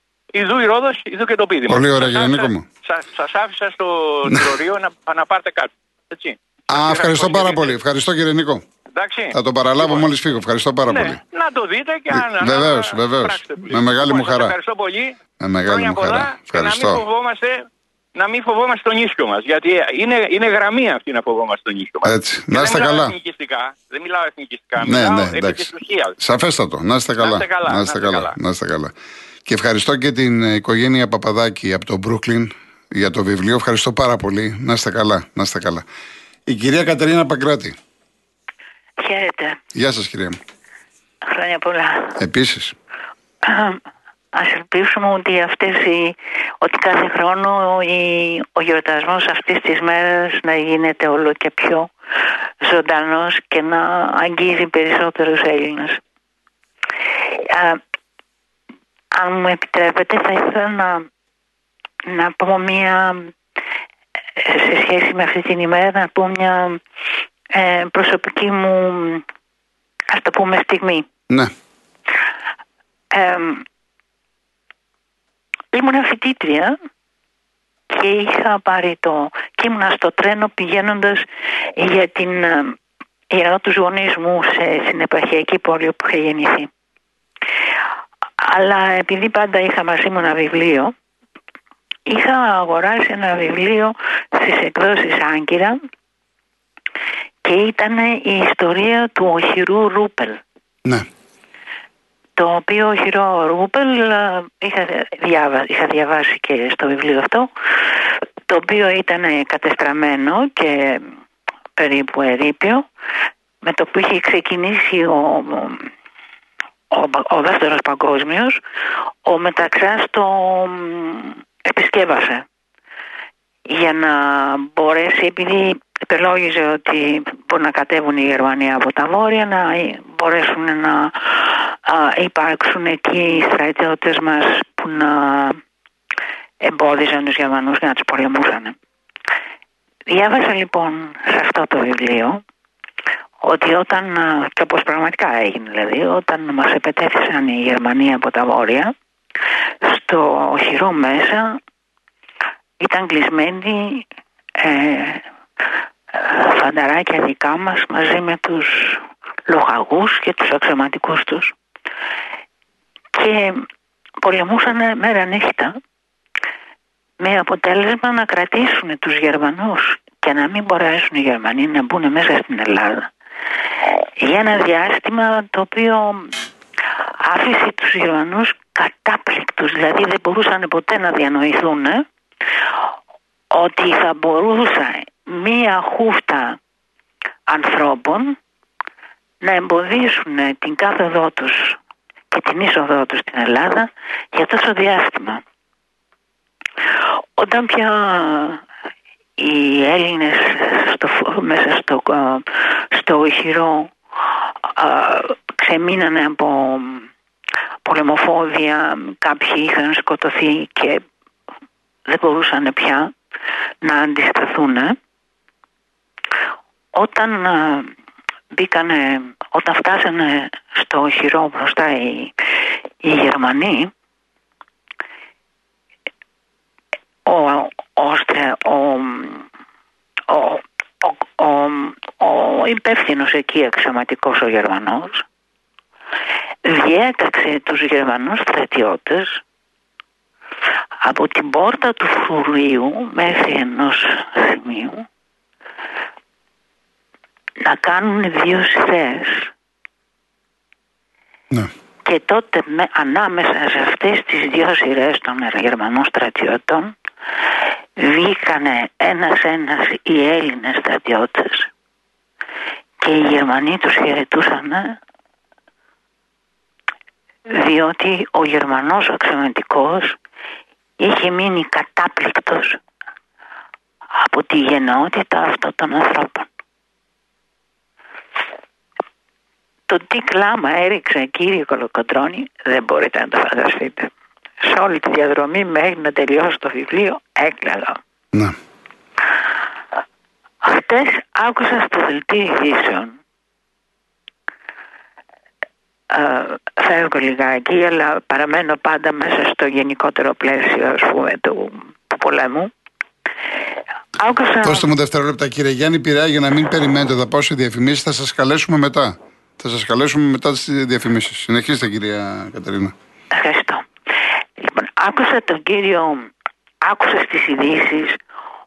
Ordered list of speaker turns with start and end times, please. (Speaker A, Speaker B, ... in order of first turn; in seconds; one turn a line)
Speaker A: 0.3-7.8
Speaker B: 1.7-2.6
Speaker B: 6.7-8.6
Speaker A: 8.9-10.1
Speaker B: 9.3-11.2
Speaker A: 10.8-17.6
Speaker B: 12.1-14.6
Speaker B: 15.4-17.0
Speaker A: 18.1-26.1
Speaker B: 22.0-23.1
Speaker B: 24.8-28.9
Speaker A: 27.2-28.4
Speaker B: 29.4-35.8
Speaker B: 36.5-37.8
Speaker C: 39.0-39.6
Speaker B: 39.7-40.4
Speaker C: 41.3-42.1
Speaker B: 42.2-42.7
Speaker C: 43.5-43.8
Speaker C: 44.3-51.9
Speaker C: 52.6-56.0
Speaker C: 57.2-57.8
Speaker C: 59.1-61.0
Speaker C: 62.0-63.3
Speaker C: 64.4-66.8
Speaker C: 67.5-69.2
Speaker C: 70.1-71.0
Speaker C: 73.1-73.6
Speaker C: 75.7-76.8
Speaker C: 77.9-82.8
Speaker C: 83.3-86.7
Speaker C: 88.4-90.9
Speaker C: 92.1-95.8
Speaker C: 97.4-100.4
Speaker C: 102.4-107.5
Speaker C: 108.5-111.1
Speaker C: 111.8-112.8
Speaker C: 113.6-115.9
Speaker C: 116.9-118.6
Speaker C: 119.2-122.4
Speaker C: 123.7-135.6
Speaker C: 136.6-138.7
Speaker C: 140.1-142.4
Speaker C: 143.4-148.9
Speaker C: 149.8-151.6
Speaker C: 152.8-154.1
Speaker C: 154.6-155.2
Speaker C: 156.1-161.5
Speaker C: 163.1-163.6
Speaker C: 164.2-165.7
Speaker C: 167.2-173.1
Speaker C: 174.2-176.3
Speaker C: 177.2-182.0
Speaker C: 183.5-186.6
Speaker C: 187.5-188.4
Speaker C: 189.4-191.8
Speaker C: 192.3-195.4
Speaker C: 197.4-198.6
Speaker C: 199.4-203.9
Speaker C: 204.6-207.1
Speaker C: 207.8-211.0
Speaker C: 212.1-213.1
Speaker C: 213.8-214.9
Speaker C: 216.9-217.9
Speaker C: 218.5-222.3
Speaker C: 223.0-223.9
Speaker C: 227.2-229.5
Speaker C: 230.3-235.2
Speaker C: 236.6-239.4
Speaker C: 241.0-245.0
Speaker C: 247.6-249.5
Speaker C: 252.0-256.9
Speaker C: 258.0-261.7
Speaker C: 263.0-265.0
Speaker C: 267.5-270.2
Speaker C: 271.0-272.8
Speaker C: 274.2-276.5
Speaker C: 279.9-284.1
Speaker C: 284.6-288.0
Speaker C: 290.6-293.2
Speaker C: 296.1-302.7
Speaker C: 304.2-304.9
Speaker B: 304.6-312.9
Speaker C: 313.3-313.8
Speaker C: 314.6-316.3
Speaker C: 316.8-318.2